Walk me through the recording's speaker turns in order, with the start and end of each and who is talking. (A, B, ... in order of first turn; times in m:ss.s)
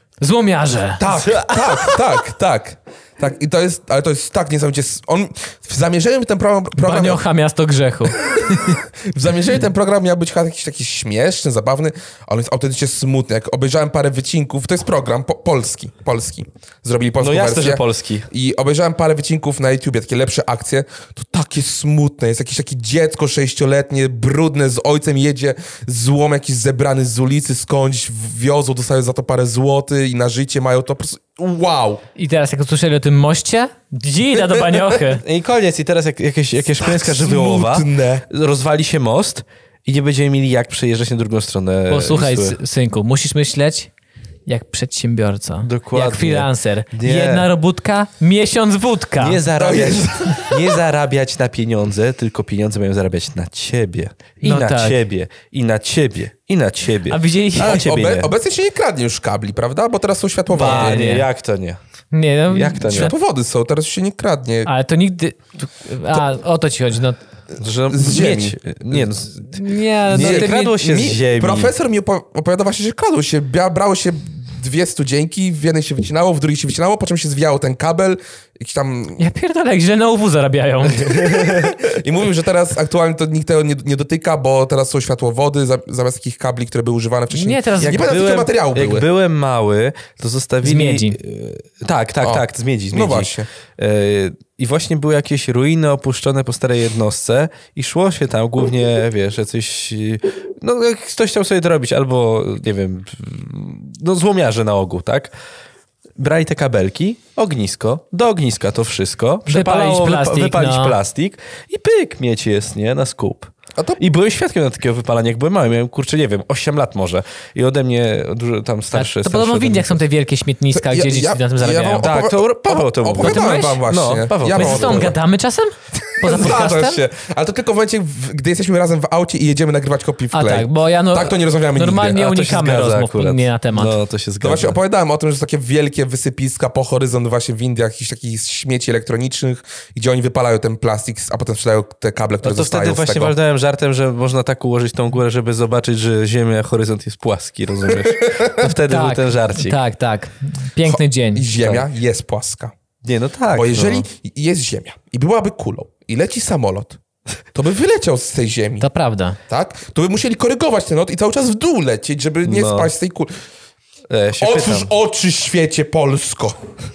0:00.2-0:01.4 A
0:01.0-0:07.2 B
0:06.8-0:08.8 A
0:08.3-0:32.0 B
0:17.2-0:18.3 C
0:32.2-0:35.2 A
0:35.2-0:42.6 C
0:36.8-0:38.2 B
0:41.9-0:43.9 A
0:44.5-0:49.4 A
0:45.6-0:47.5 C
0:49.2-0:58.3 C
0:49.6-0:50.8 B
0:54.4-0:55.0 A
0:57.1-0:57.8 A
0:57.6-1:01.1 B
1:00.5-1:01.8 C
1:00.6-1:01.3 A
1:02.1-1:03.1 A
1:02.5-1:03.1 C
1:02.9-1:04.7 B
1:04.7-1:07.2 A
1:07.6-1:11.7 C
1:07.9-1:09.0 B
1:09.5-1:10.7 A
1:10.1-1:19.2 B
1:19.2-1:21.3 A
1:21.0-1:21.8 C
1:21.1-1:29.1 B
1:27.3-1:28.2 A
1:27.8-1:45.3 C
1:30.6-1:31.2 A
1:32.2-1:33.5 B
1:46.2-2:00.0 C
1:49.5-1:51.0 A
1:58.9-2:02.1 A
2:00.7-2:05.2 B
2:02.0-2:05.2 C
2:03.2-2:03.8 A
2:04.5-2:07.0 A
2:06.1-2:12.2 B
2:10.3-2:14.0 A
2:12.1-2:14.8 C
2:14.4-2:23.4 B
2:22.4-2:29.8 C
2:28.0-2:28.6 B
2:28.7-2:31.5 A
2:30.9-2:32.7 B
2:31.6-2:31.9 C
2:33.0-2:34.1 C
2:33.5-2:37.0 B
2:37.5-2:38.9 B
2:38.8-2:39.4 A
2:39.5-2:43.4 B
2:42.4-2:42.9 C
2:44.1-2:44.9 C
2:44.4-2:46.6 B